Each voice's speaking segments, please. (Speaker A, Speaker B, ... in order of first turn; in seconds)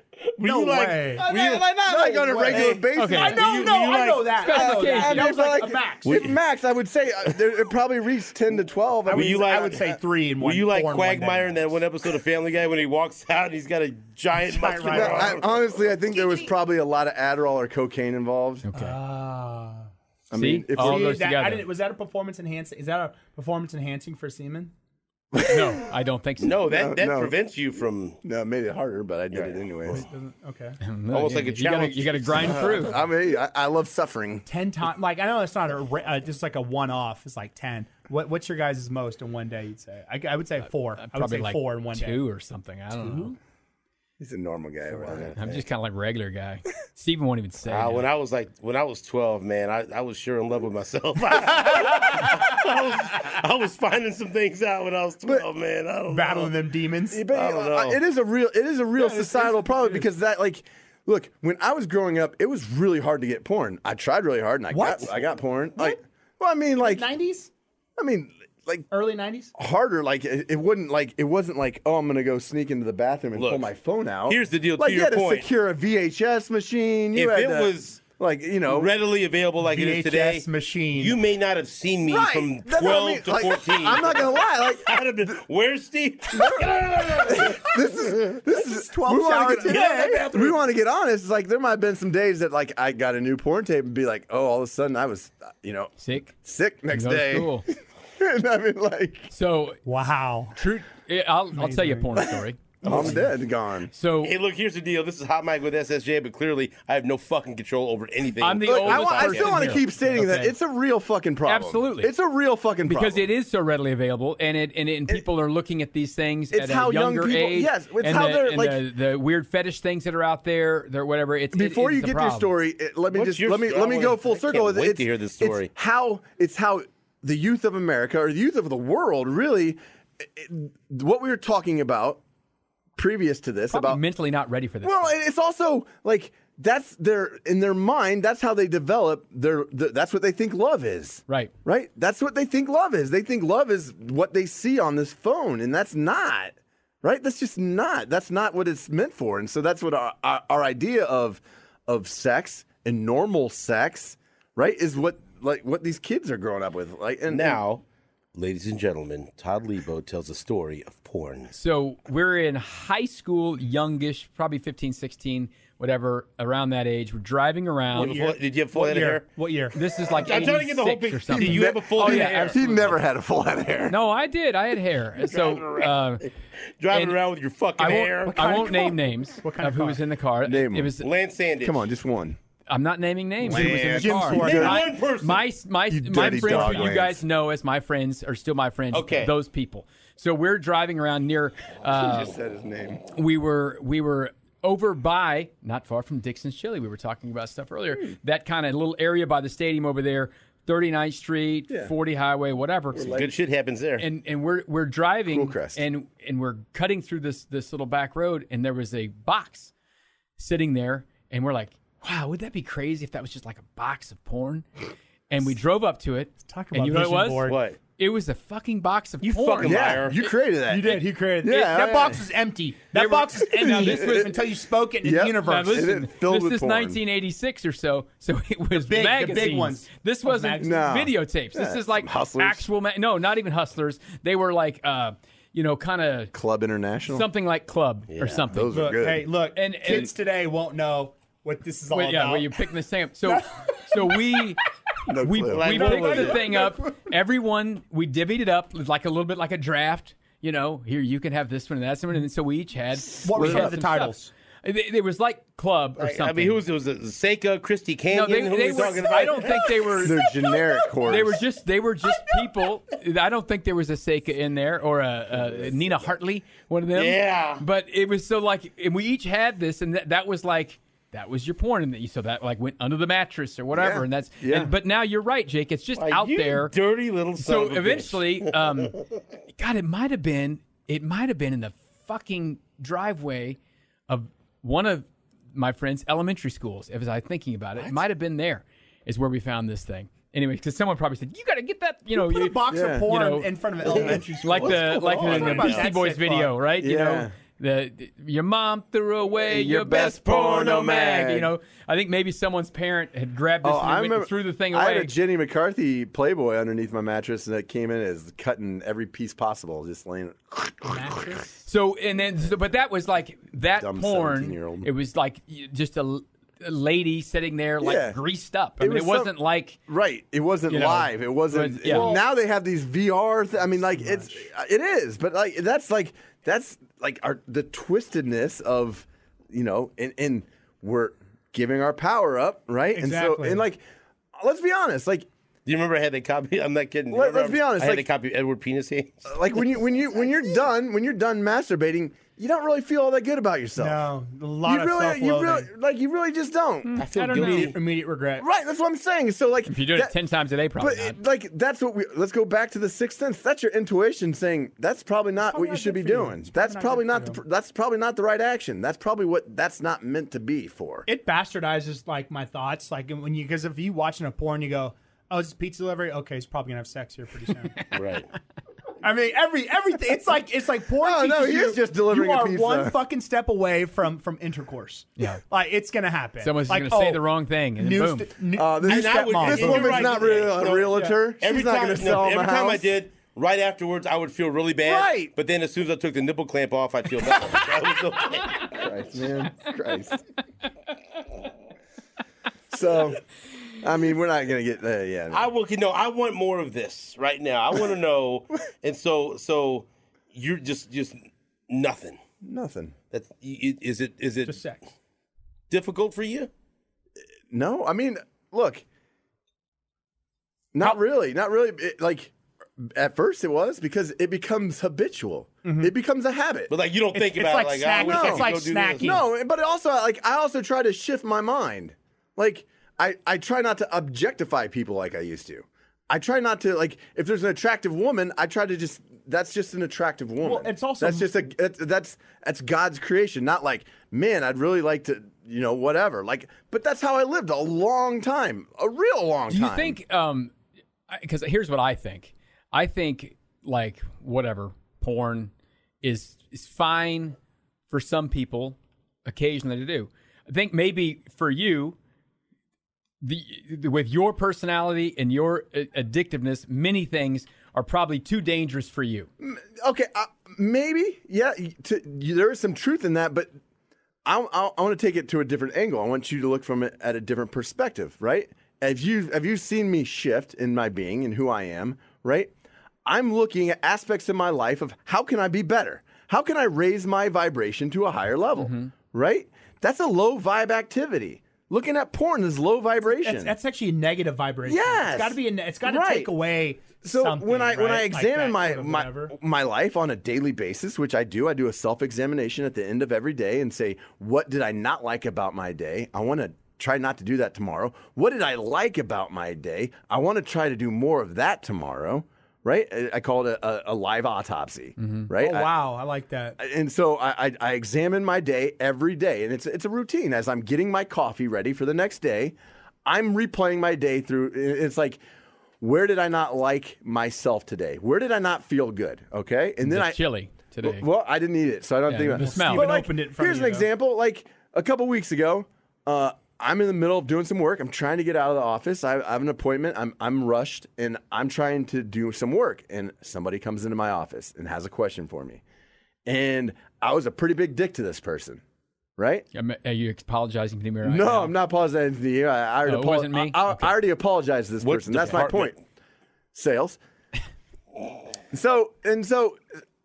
Speaker A: 0.2-4.4, 6.0-6.3, 9.1-15.5, 26.4-28.2, 29.3-30.0, 31.1-32.8, 45.0-45.6, 47.7-56.5, 57.3-58.0, 73.3-73.7, 74.2-75.5, 77.1-78.0, 78.7-88.3, 89.6-90.6, 102.8-103.2, 104.2-109.8, 123.1-125.7, 157.3-157.8, 158.3-161.5, 167.9-169.2, 170.1-172.9, 175.2-176.3, 176.8-178.3, 181.0-181.8, 183.4-185.4, 188.9-189.3, 203.0-204.0, 217.4-217.8, 219.2-220.2, 238.1-238.4, 245.5-246.4, 256.0-260.3, 266.9-267.6, 276.0-279.0, 293.9-295.9, 299.9-301.3, 321.9-322.2, 335.6-339.3, 347.0-347.7, 367.9-368.3, 378.8-388.8, 395.3-401.2, 401.7-402.2, 403.1-404.6, 405.7-406.5, 416.7-419.2, 544.8-545.8
Speaker B: 0.4-1.3, 1.9-6.3, 9.1-11.6, 14.3-15.4, 18.7-19.9, 20.7-24.7, 29.9-30.8, 34.5-42.2, 43.0-43.3, 44.9-45.2, 56.1-57.2, 59.0-60.1, 64.7-65.2, 66.8-67.5, 68.9-69.5, 79.6-81.2, 88.5-90.3, 99.8-100.6, 101.5-102.1, 167.9-169.8, 178.2-180.0, 183.9-184.9, 186.3-186.7, 216.4-217.6, 220.7-225.9, 228.8-230.9, 238.7-242.6, 243.2-244.2, 245.7-246.7, 253.2-254.3, 292.1-296.6, 310.8-311.5, 323.9-324.4, 332.9-333.6, 343.8-345.7, 347.1-348.4, 355.4-357.4, 361.1-367.8, 369.0-377.3, 377.8-381.2, 404.4-404.8, 415.6-415.9, 417.1-419.2, 430.4-431.3, 483.1-489.3, 505.4-506.6, 522.3-523.9
Speaker C: 1.2-3.6, 4.5-9.5, 14.9-18.7, 20.3-21.2, 25.3-25.8, 26.6-27.4, 28.2-30.0, 32.3-34.4, 44.2-45.4, 57.1-67.1, 68.0-68.9, 69.5-78.9, 82.0-85.4, 86.3-99.3, 102.8-103.9, 108.6-113.2, 116.5-118.8, 121.5-132.2, 132.9-134.0, 134.8-157.6, 171.3-173.9, 180.4-180.9, 181.6-182.4, 183.4-184.8, 185.9-187.2, 191.8-193.0, 202.9-203.3, 205.3-205.8, 219.6-222.2, 223.6-224.3, 225.0-227.0, 230.6-232.7, 236.3-237.3, 238.2-239.3, 245.1-246.5, 253.3-253.7, 260.0-261.4, 265.3-266.1, 273.7-274.7, 292.7-293.1, 293.8-294.2, 296.8-297.3, 299.5-301.4, 303.6-311.1, 313.8-314.9, 317.8-318.2, 318.8-319.3, 319.9-333.8, 334.4-335.3, 337.1-338.0, 339.2-344.0, 344.6-347.0, 348.4-350.1, 350.8-361.1, 371.0-373.0, 378.5-382.9, 384.8-385.3, 388.7-390.2, 392.7-393.2, 393.8-395.5, 402.4-402.9, 407.5-408.8, 410.7-416.7, 418.0-440.0, 459.4-463.5, 464.2-472.5, 473.1-483.5, 484.6-486.3, 487.0-505.7, 506.6-515.2, 515.8-520.2, 520.8-535.6, 536.2-538.6, 539.2-539.5, 541.0-545.8, 546.5-547.0, 548.5-549.6
Speaker D: 3.0-3.4, 4.4-5.3, 18.6-19.0, 20.3-21.7, 25.3-26.6, 30.8-33.0, 41.0-43.4, 45.4-48.0, 96.0-96.3, 96.9-97.7, 99.3-99.8, 100.5-103.2, 103.9-104.3, 108.4-110.5, 111.4-112.1, 112.8-122.5, 133.7-135.1, 161.5-168.1, 169.7-172.8, 173.9-176.3, 176.9-177.2, 177.8-181.1, 182.7-192.3, 193.1-203.2, 204.0-209.7, 210.4-214.7, 215.3-220.0, 222.9-224.3, 225.4-236.3, 237.1-238.9, 239.5-240.1, 241.9-244.6, 245.2-256.6, 258.1-260.1, 261.0-276.7, 277.4-279.0, 279.6-283.6, 284.1-293.5, 294.4-305.1, 311.6-319.8, 320.7-322.1, 346.9-347.7, 349.7-351.2, 376.4-378.3, 439.5-440.5, 441.1-445.5, 446.0-447.4, 447.9-452.0, 453.2-459.3, 478.6-478.9, 505.0-505.3, 519.8-521.0, 522.1-522.9, 539.5-541.5, 542.9-543.9